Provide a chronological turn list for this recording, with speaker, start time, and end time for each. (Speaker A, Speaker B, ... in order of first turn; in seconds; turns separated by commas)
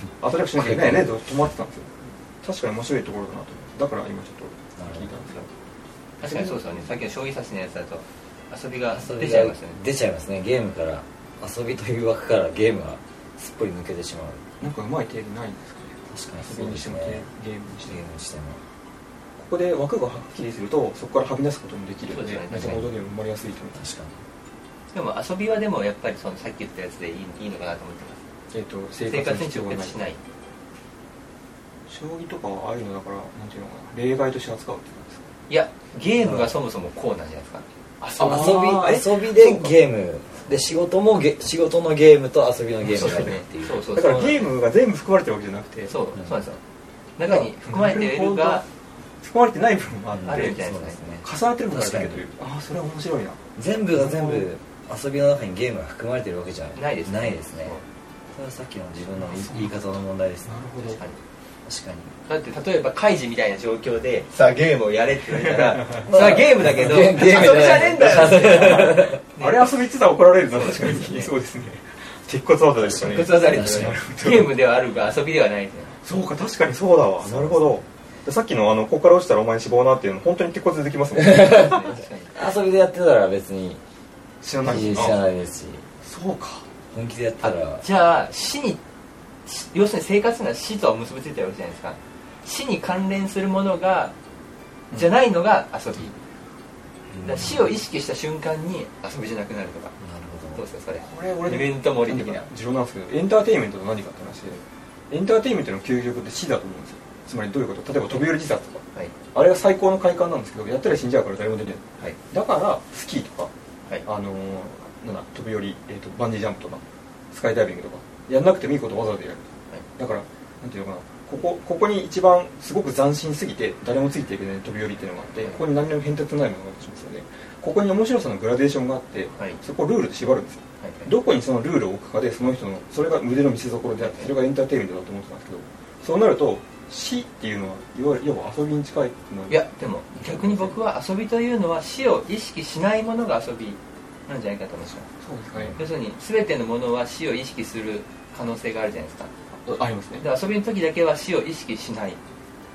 Speaker A: 0.2-5.4, Speaker B: 0.6-1.1, Speaker B: 4.8-5.2, Speaker C: 6.2-9.8, Speaker A: 6.2-6.9, Speaker B: 8.9-14.6, Speaker A: 14.6-18.0, Speaker B: 16.1-17.3, Speaker B: 17.8-18.6, Speaker A: 19.4-23.9, Speaker C: 22.1-22.7, Speaker B: 22.6-22.9, Speaker B: 23.7-24.2, Speaker C: 24.9-28.2, Speaker A: 28.5-30.0, Speaker C: 29.0-30.2, Speaker A: 31.9-35.3, Speaker C: 35.5-37.6, Speaker B: 36.2-36.6, Speaker A: 38.0-39.8, Speaker B: 38.2-43.8, Speaker A: 42.8-45.9, Speaker C: 42.9-44.5, Speaker C: 45.8-46.6, Speaker C: 47.2-48.7, Speaker A: 47.2-48.7, Speaker A: 49.2-50.6, Speaker B: 50.1-52.2, Speaker C: 50.3-51.0, Speaker A: 51.2-54.5, Speaker B: 53.5-57.8, Speaker C: 56.7-57.8, Speaker B: 58.3-60.6, Speaker A: 59.1-59.9, Speaker A: 60.4-61.0, Speaker C: 60.8-61.2, Speaker B: 61.6-62.2, Speaker C: 62.3-69.8, Speaker A: 65.4-65.7, Speaker B: 66.0-69.2, Speaker A: 67.6-74.5, Speaker C: 70.4-71.3, Speaker C: 72.8-76.0, Speaker B: 73.4-74.0, Speaker A: 76.0-81.9, Speaker B: 77.2-77.9, Speaker B: 81.2-83.8, Speaker C: 81.5-82.5, Speaker A: 84.4-85.2, Speaker B: 84.6-85.9, Speaker A: 86.0-86.7, Speaker B: 86.9-87.8, Speaker C: 87.4-88.8, Speaker C: 89.4-94.1, Speaker C: 94.9-96.2, Speaker B: 97.1-97.8, Speaker C: 97.2-100.0, Speaker B: 100.0-100.6, Speaker C: 100.5-102.5, Speaker A: 100.9-113.5, Speaker A: 114.0-140.8, Speaker C: 125.4-125.6, Speaker C: 129.4-129.6, Speaker C: 130.8-131.1, Speaker C: 134.0-134.3, Speaker C: 139.5-145.1, Speaker A: 145.2-145.9, Speaker C: 145.8-149.3, Speaker A: 149.5-150.3, Speaker C: 150.2-152.2